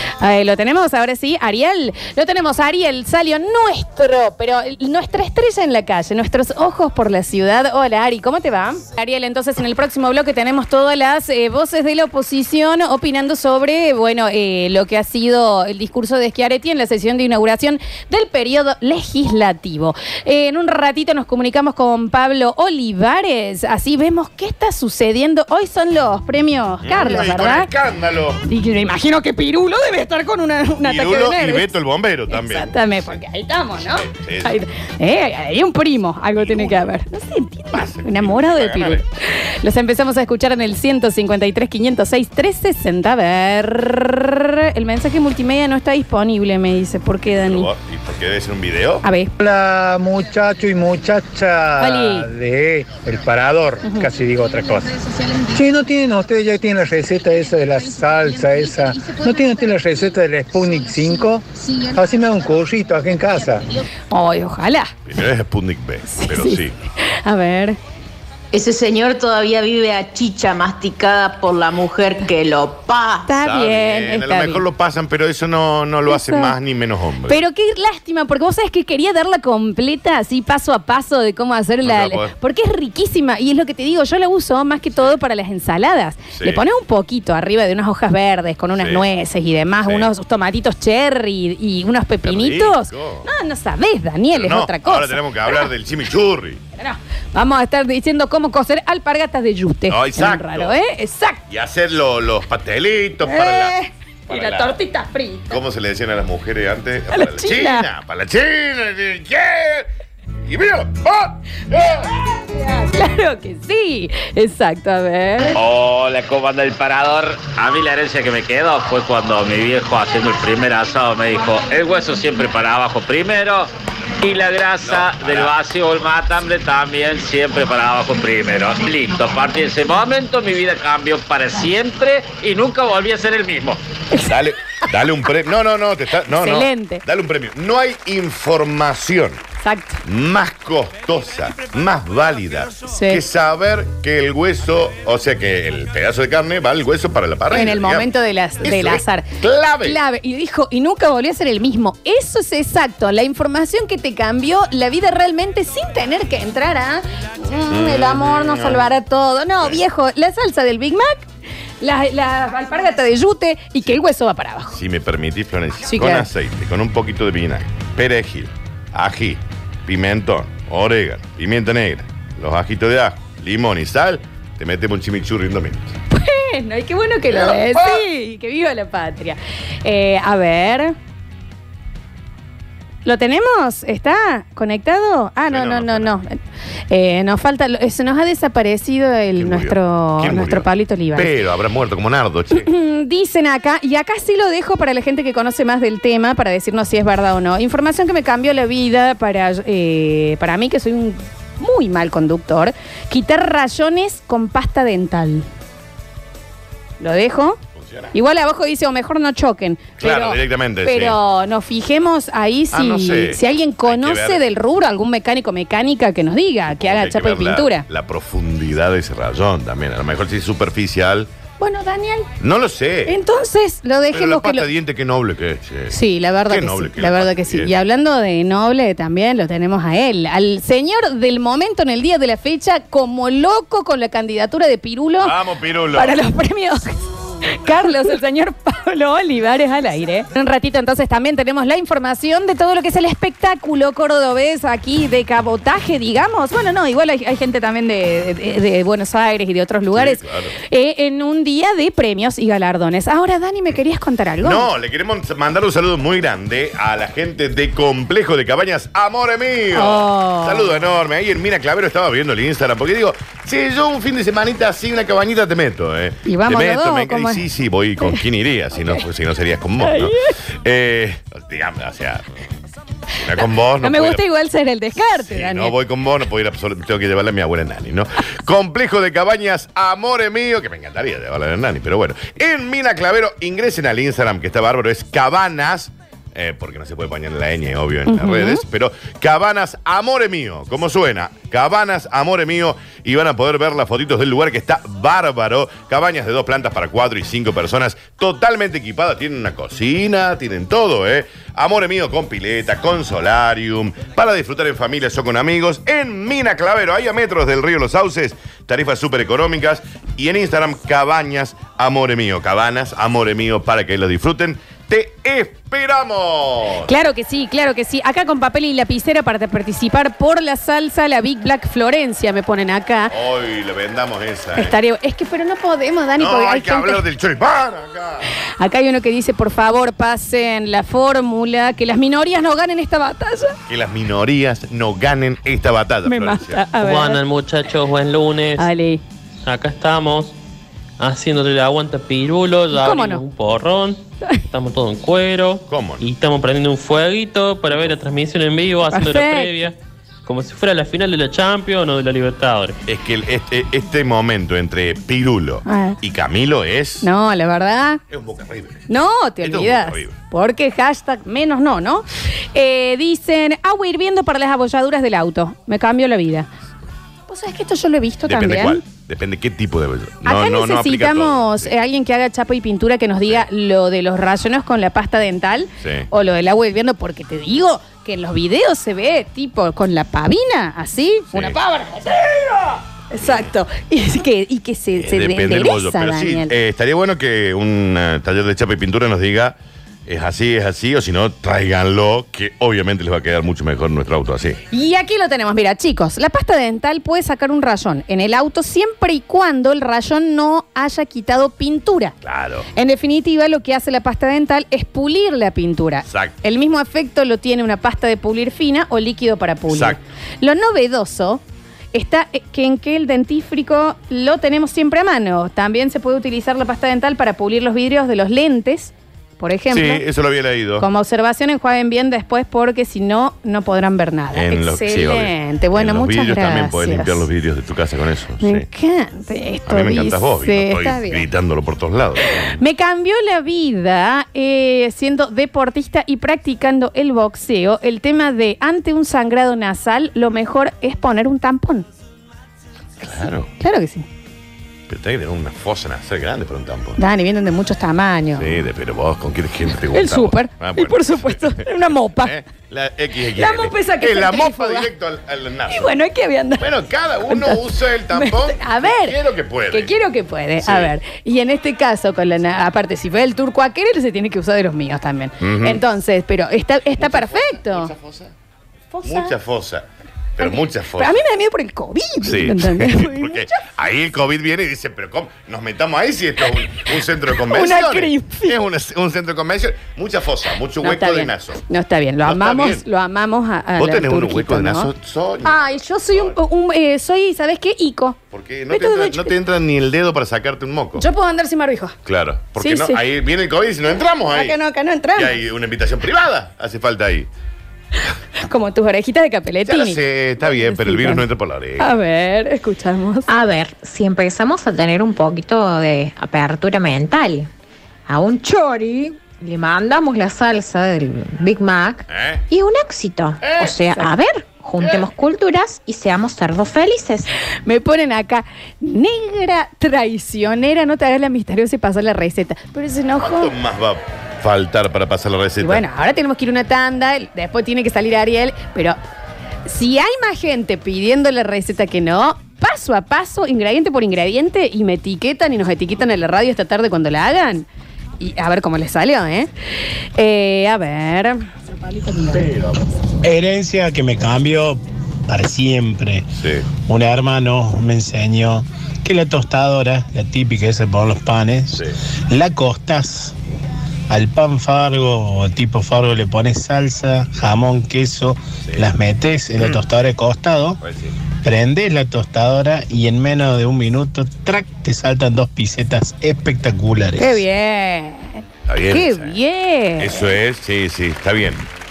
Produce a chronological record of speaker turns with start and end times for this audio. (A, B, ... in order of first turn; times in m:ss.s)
0:00.2-0:27.7 A
0:26.8-0:28.4 B
0:28.4-0:31.7 A
0:30.8-0:33.2 B
0:32.3-0:47.7 A
0:33.8-0:34.6 B
0:36.4-0:36.9 B
0:37.7-0:39.0 B
0:47.3-0:49.0 B
0:49.0-0:49.3 A
0:49.4-0:55.0 C
0:51.8-0:52.3 A
0:53.8-0:54.1 A
0:55.5-1:03.6 C
1:04.1-1:04.9 A
1:05.0-1:06.8 B
1:06.1-1:07.8 A
1:08.5-1:13.3 D
1:13.2-1:14.6 A
1:13.3-1:17.4 B
1:16.1-1:16.6 A
1:17.3-1:35.6 A
1:21.8-1:22.3 B
1:26.3-1:26.6 B
1:28.8-1:29.0 B
1:29.8-1:30.1 B
1:32.2-1:33.3 B
1:34.3-1:36.6 B
1:36.8-1:41.4 A
1:39.9-1:40.7 B
1:41.5-1:43.8 B
1:43.2-1:45.6 A
1:44.3-1:44.8 B
1:45.5-1:49.9 B
1:47.1-1:47.8 A
1:50.4-1:52.1 B
1:52.5-1:55.5 A
1:55.5-2:13.8 E
2:04.8-2:05.5 B
2:14.2-2:19.4 B
2:16.3-2:17.0 A
2:19.6-2:20.0 A
2:20.0-2:28.1 B
2:22.9-2:23.2 A
2:27.5-2:29.3 A
2:28.6-2:30.0 B
2:29.8-2:41.3 A
2:37.7-2:38.8 B
2:41.8-2:44.7 A
2:44.7-2:56.0 B
2:45.9-2:46.3 A
2:56.1-3:00.9 A
2:57.3-2:58.0 B
3:03.0-3:06.4 A
3:05.5-3:06.1 B
3:06.9-3:11.3 A
3:09.4-3:12.7 B
3:12.5-3:25.5 A
3:27.0-3:27.6 A
3:27.7-3:28.1 B
3:28.1-3:37.8 A
3:30.0-3:31.2 B
3:32.7-3:34.4 B
3:36.7-3:41.3 B
3:41.6-3:42.3 A
3:42.4-3:43.1 B
3:43.1-3:44.7 A
3:44.1-3:46.0 B
3:45.9-3:55.3 A
3:46.5-3:47.7 B
3:55.2-3:56.2 B
3:55.9-3:56.9 A
3:57.4-4:14.7 A
4:09.9-4:10.5 B
4:14.4-4:32.2 B
4:19.7-4:20.8 A
4:26.2-4:27.4 A
4:29.8-4:30.3 A
4:33.2-4:34.2 B
4:33.8-4:35.7 A
4:35.2-5:16.9 B
4:48.1-4:48.6 A
5:16.8-5:23.1 A
5:23.1-5:24.7 B
5:24.6-5:27.0 A
5:26.2-5:28.3 B
5:28.6-5:33.6 A
5:33.7-5:36.6 B
5:36.0-5:37.2 A
5:36.8-5:38.7 F
5:38.6-5:39.0 A
5:39.4-5:40.3 F
5:41.0-5:52.8 F
5:42.7-5:43.2 A
5:45.7-5:46.0 B
5:48.9-5:49.5 A
5:52.8-5:57.1 B
5:55.6-5:56.0 A
5:57.0-5:58.0 A
5:58.1-5:58.9 B
5:58.9-6:06.5 A
5:59.4-6:00.2 B
6:07.3-6:08.8 A
6:08.2-6:11.7 B
6:10.2-6:26.5 A
6:15.8-6:16.1 B
6:21.3-6:21.6 B
6:23.2-6:23.5 B
6:25.0-6:34.6 B
6:34.7-6:42.2 A
6:42.2-6:42.7 B
6:42.7-6:51.4 A
6:46.1-6:46.4 B
6:49.7-6:50.0 B
6:51.9-7:00.0 A
6:59.7-7:00.9 B
7:00.8-7:07.2 A
7:04.3-7:08.7 B
7:08.4-7:11.2 A
7:09.7-7:12.6 B
7:12.6-7:21.9 A
7:23.0-7:23.5 B
7:23.6-7:24.0 A
7:24.9-7:27.0 B
7:27.0-7:28.5 A
7:28.4-7:35.9 B
7:29.9-7:32.4 A
7:33.4-7:34.9 A
7:35.7-7:36.6 A
7:36.6-7:39.9 B
7:37.3-7:39.2 A
7:39.7-7:47.9 A
7:40.6-7:40.9 B
7:45.4-7:45.8 B
7:47.0-7:48.3 B
7:48.9-7:49.3 A
7:49.0-7:51.2 B
7:50.4-7:53.7 A
7:52.2-8:01.6 B
7:57.5-7:58.6 A
8:00.8-8:04.9 A
8:02.2-8:02.8 B
8:03.8-8:06.4 B
8:05.4-8:08.2 A
8:08.3-8:11.0 B
8:08.7-8:09.3 A
8:11.0-8:12.0 A
8:12.0-8:14.6 B
8:12.6-8:13.0 A
8:14.3-8:15.3 A
8:15.2-8:17.3 B
8:18.4-8:21.2 A
8:19.6-8:21.9 B
8:21.8-8:23.3 A
8:23.3-8:27.5 G
8:28.1-8:37.3 G
8:32.1-8:32.4 B
8:33.4-8:33.8 B
8:37.6-8:43.5 A
8:43.2-8:45.8 B
8:45.6-8:49.0 A
8:49.6-8:57.6 A
8:58.2-8:59.5 A
9:00.2-9:02.4 A
9:03.2-9:13.3 H
9:06.4-9:06.7 B
9:14.1-9:20.8 H
9:20.8-9:21.1 B
9:21.4-9:27.4 H
9:27.2-9:30.3 A
9:28.6-9:29.4 B
9:30.0-9:31.6 B